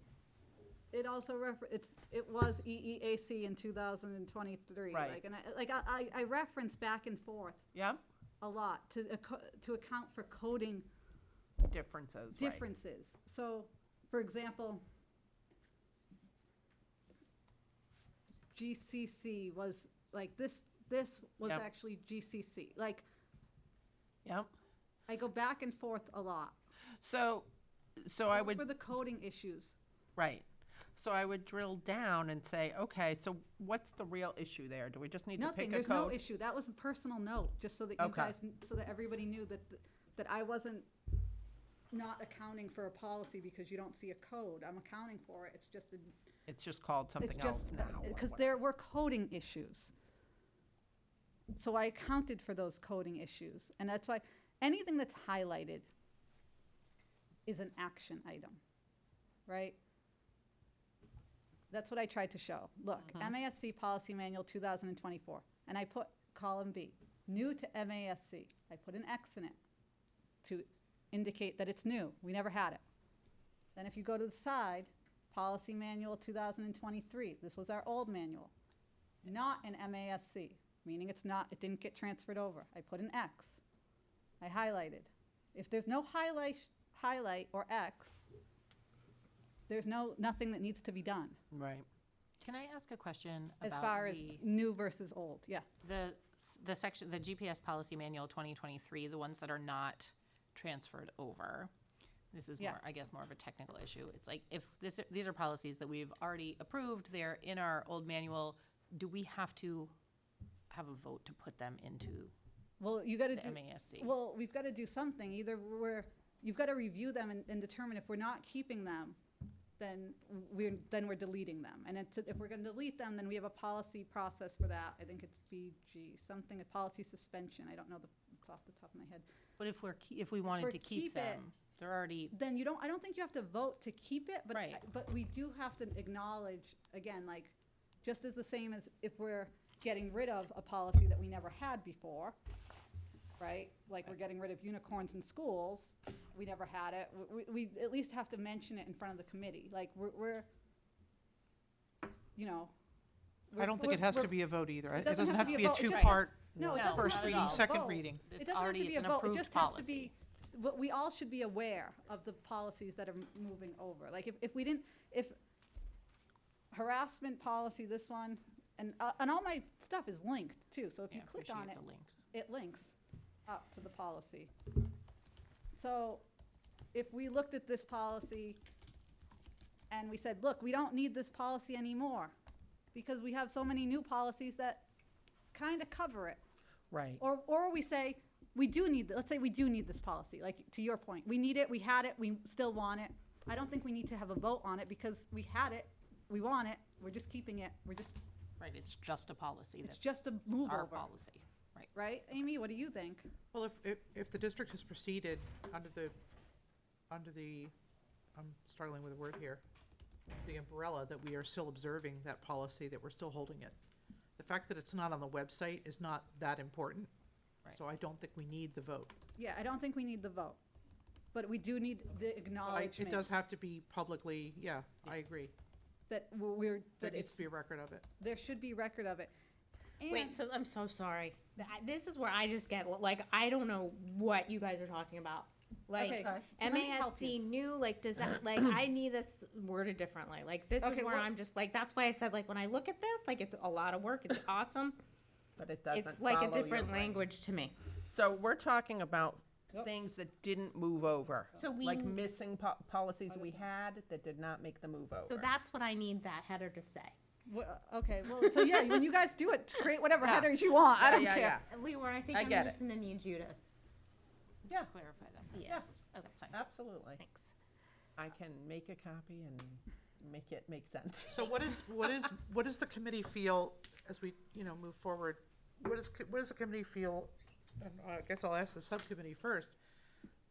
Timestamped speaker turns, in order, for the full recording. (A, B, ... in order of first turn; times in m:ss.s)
0:00.9-0:07.6 A
0:04.9-0:05.2 B
0:07.7-0:08.0 B
0:08.4-0:10.9 A
0:11.6-0:12.6 B
0:12.4-0:14.8 A
0:18.5-0:23.0 A
0:24.2-0:24.5 B
0:25.1-0:26.6 A
0:27.0-0:28.6 B
0:28.3-0:29.8 A
0:30.2-0:36.2 B
0:35.4-0:40.9 A
0:38.0-0:38.4 B
0:41.9-0:46.2 A
0:46.5-0:48.4 B
0:47.2-0:49.9 A
0:51.5-0:55.9 A
0:57.4-0:58.6 A
0:59.5-0:59.8 A
1:01.7-1:09.6 A
1:10.4-1:12.8 A
1:13.8-1:18.5 A
1:19.2-1:23.6 A
1:24.4-1:28.2 A
1:29.7-1:31.4 A
1:31.5-1:31.8 B
1:32.4-1:34.4 C
1:33.6-1:35.6 A
1:35.8-1:41.7 C
1:42.3-1:49.9 C
1:50.7-1:52.3 C
1:52.8-1:59.2 A
1:53.3-1:54.1 C
1:59.8-2:09.2 A
2:09.6-2:12.3 C
2:10.6-2:11.4 A
2:12.3-2:22.4 A
2:14.5-2:14.8 C
2:23.4-2:30.5 A
2:32.4-2:32.7 A
2:33.5-2:34.4 A
2:33.6-2:38.2 D
2:34.9-2:45.3 A
2:35.3-2:35.9 C
2:36.5-2:36.9 B
2:36.7-2:40.1 C
2:46.7-2:51.8 A
2:51.1-2:52.2 C
2:52.3-2:53.0 A
2:53.5-2:54.7 A
2:55.7-2:56.2 A
2:56.9-2:58.6 A
2:59.9-3:02.3 A
3:02.9-3:04.9 A
3:05.5-3:06.4 A
3:06.9-3:07.2 B
3:07.2-3:18.2 A
3:18.6-3:21.9 C
3:19.8-3:21.1 A
3:21.9-3:23.3 A
3:23.5-3:26.1 D
3:27.1-3:27.7 D
3:28.3-3:29.6 D
3:30.4-3:33.8 D
3:34.4-3:37.1 D
3:37.6-3:39.1 D
3:39.4-3:40.6 A
3:41.3-3:43.3 A
3:42.7-3:45.5 D
3:46.1-3:47.4 A
3:47.0-3:48.0 D
3:48.2-3:49.3 A
3:50.0-3:50.4 A
3:50.1-4:05.0 E
3:56.0-3:57.4 A
3:56.0-3:56.5 B
4:00.8-4:01.3 A
4:05.6-4:07.3 B
4:05.9-4:07.7 E
4:08.1-4:15.5 B
4:11.5-4:12.2 E
4:13.3-4:13.6 A
4:15.2-4:17.2 E
4:17.4-4:21.6 A
4:18.5-4:18.8 E
4:20.2-4:21.7 B
4:21.7-4:23.6 E
4:22.3-4:22.8 B
4:24.8-4:26.6 C
4:25.5-4:25.8 E
4:26.5-4:27.2 B
4:27.2-4:27.5 E
4:28.2-4:31.5 B
4:31.3-4:39.8 D